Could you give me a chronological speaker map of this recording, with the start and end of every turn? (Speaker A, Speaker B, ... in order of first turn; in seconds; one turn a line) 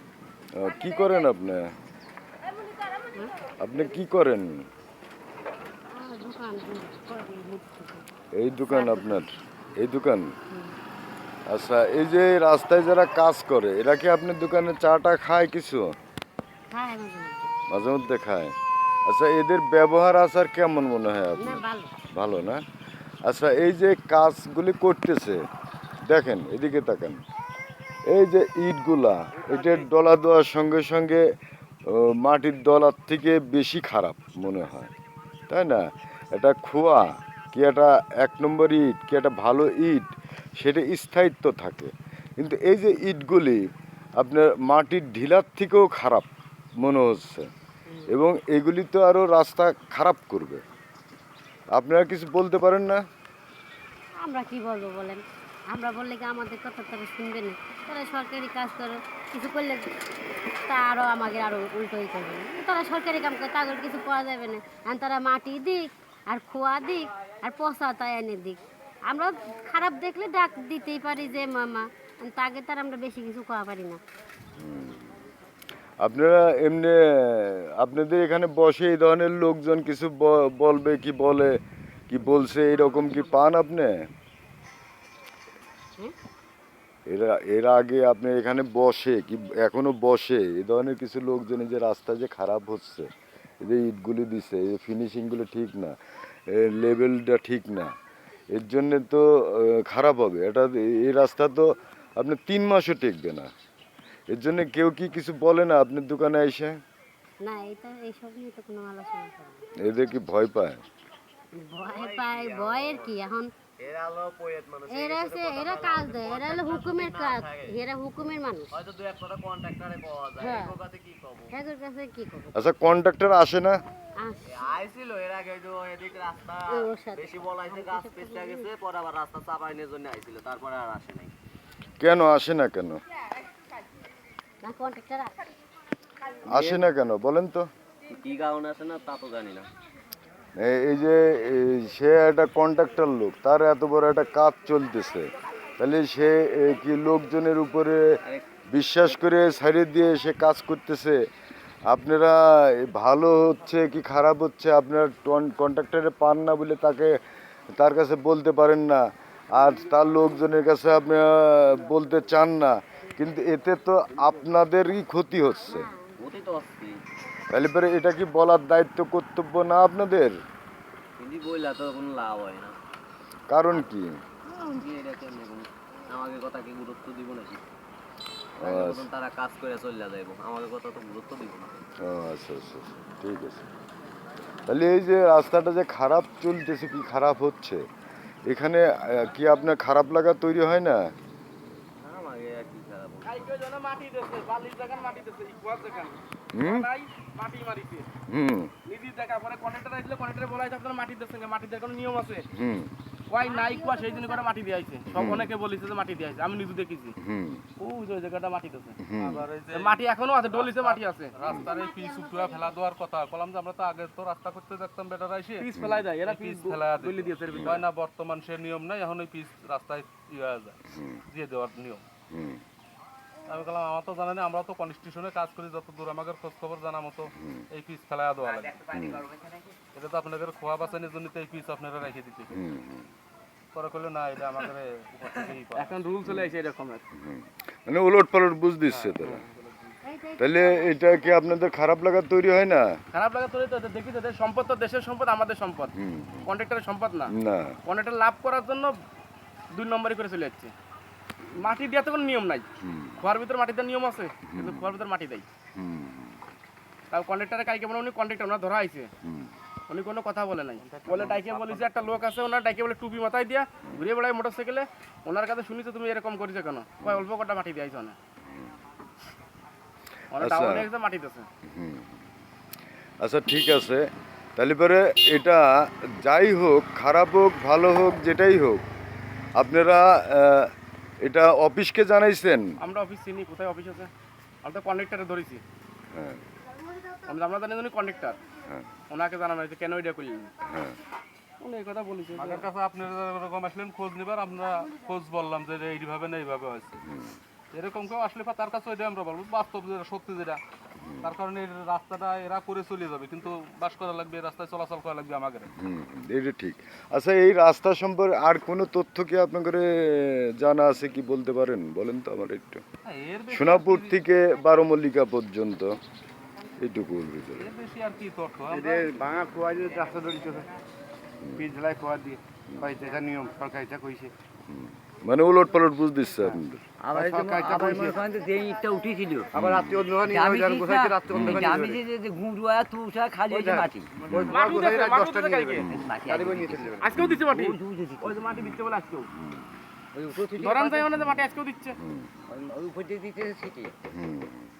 Speaker A: 0.6-1.7
Speaker A: 3.6-4.7
Speaker B: 5.9-8.1
Speaker A: 8.4-10.3
Speaker B: 8.7-9.1
Speaker A: 11.5-15.9
Speaker B: 16.7-17.5
Speaker A: 17.7-18.5
Speaker A: 19.1-21.6
Speaker B: 21.4-21.9
Speaker A: 22.2-22.6
Speaker A: 23.3-25.4
Speaker A: 26.1-27.2
Speaker A: 28.1-31.2
Speaker C: 29.4-29.8
Speaker A: 31.9-34.9
Speaker A: 35.5-40.1
Speaker A: 40.6-43.6
Speaker A: 44.2-46.3
Speaker A: 46.8-47.5
Speaker A: 48.1-50.6
Speaker A: 51.8-53.0
Speaker B: 54.2-59.9
Speaker B: 60.7-74.0
Speaker A: 74.6-75.1
Speaker A: 76.0-81.6
Speaker A: 82.1-84.0
Speaker B: 82.9-83.4
Speaker A: 87.1-93.1
Speaker A: 93.6-96.0
Speaker A: 96.5-97.9
Speaker A: 98.5-103.5
Speaker A: 104.3-106.8
Speaker B: 107.4-109.6
Speaker A: 109.8-110.8
Speaker B: 111.5-113.5
Speaker C: 111.8-113.2
Speaker C: 113.8-117.8
Speaker B: 114.9-118.7
Speaker C: 118.7-121.5
Speaker B: 120.4-120.8
Speaker B: 121.5-122.6
Speaker A: 122.5-123.8
Speaker B: 124.2-124.6
Speaker C: 124.5-131.3
Speaker B: 126.7-128.7
Speaker A: 132.0-133.0
Speaker B: 134.6-135.3
Speaker A: 136.5-137.7
Speaker C: 136.5-136.9
Speaker C: 138.1-139.7
Speaker A: 140.6-148.0
Speaker A: 148.7-151.2
Speaker A: 151.9-157.2
Speaker A: 157.7-159.0
Speaker A: 159.5-165.9
Speaker B: 165.7-166.2
Speaker C: 166.2-167.0
Speaker A: 167.5-170.4
Speaker C: 171.2-172.8
Speaker A: 173.5-174.1
Speaker C: 174.5-177.7
Speaker A: 178.6-179.1
Speaker C: 178.6-181.8
Speaker A: 182.0-183.7
Speaker A: 184.7-187.8
Speaker A: 188.5-191.1
Speaker C: 192.0-193.4
Speaker D: 193.2-198.1
Speaker A: 196.5-196.9
Speaker A: 198.3-198.7
Speaker D: 198.9-202.5
Speaker A: 202.5-202.9
Speaker D: 203.3-207.2
Speaker B: 203.5-204.4
Speaker A: 205.1-205.5
Speaker A: 207.2-207.6
Speaker D: 207.8-209.0
Speaker A: 209.0-209.5
Speaker E: 209.2-215.7
Speaker D: 209.7-211.4
Speaker B: 211.5-212.8
Speaker D: 215.6-217.9
Speaker A: 215.8-216.1
Speaker E: 216.2-222.0
Speaker A: 217.5-217.8
Speaker A: 222.3-222.6
Speaker E: 223.5-228.9
Speaker A: 227.4-227.6
Speaker A: 228.8-229.3
Speaker E: 229.9-232.6
Speaker A: 232.5-233.1
Speaker E: 233.7-235.9
Speaker D: 235.7-237.0
Speaker A: 237.2-239.4
Speaker B: 240.0-241.4
Speaker A: 240.4-242.9
Speaker D: 243.1-245.9
Speaker A: 246.0-246.5
Speaker D: 246.5-247.3
Speaker A: 247.3-247.7
Speaker D: 247.9-248.9
Speaker D: 249.7-250.7
Speaker D: 251.5-252.7
Speaker A: 252.8-253.2
Speaker D: 253.2-255.5
Speaker A: 254.5-255.0
Speaker A: 255.8-256.4
Speaker D: 257.1-259.1
Speaker A: 259.2-259.5
Speaker D: 259.9-268.2
Speaker F: 260.8-261.9
Speaker D: 270.3-271.5
Speaker A: 270.4-270.9
Speaker A: 271.7-272.1
Speaker A: 273.2-274.1
Speaker A: 274.6-278.8
Speaker A: 279.6-280.7
Speaker A: 281.2-282.7
Speaker D: 282.8-284.1
Speaker D: 284.6-285.6
Speaker A: 286.1-286.4
Speaker D: 287.3-288.4
Speaker D: 289.1-290.5
Speaker A: 290.6-291.0
Speaker D: 291.6-292.7
Speaker E: 292.4-297.0
Speaker A: 297.1-297.4
Speaker E: 297.7-300.6
Speaker A: 301.0-301.3
Speaker E: 301.2-305.7
Speaker A: 305.7-312.8
Speaker E: 313.1-314.2
Speaker A: 313.5-316.0
Speaker A: 316.8-317.7
Speaker E: 317.6-319.2
Speaker F: 318.7-320.7
Speaker F: 321.6-324.3
Speaker A: 324.7-326.8
Speaker F: 326.4-328.2
Speaker G: 327.0-329.5
Speaker A: 329.6-330.1
Speaker F: 329.6-332.0
Speaker G: 330.2-334.1
Speaker A: 331.3-331.6
Speaker F: 333.5-337.1
Speaker A: 334.3-334.6
Speaker D: 334.5-335.9
Speaker G: 336.0-336.9
Speaker D: 337.0-339.3
Speaker G: 337.5-338.4
Speaker G: 340.1-341.1
Speaker D: 340.6-342.0
Speaker A: 342.0-342.3
Speaker G: 342.5-343.9
Speaker A: 344.1-344.6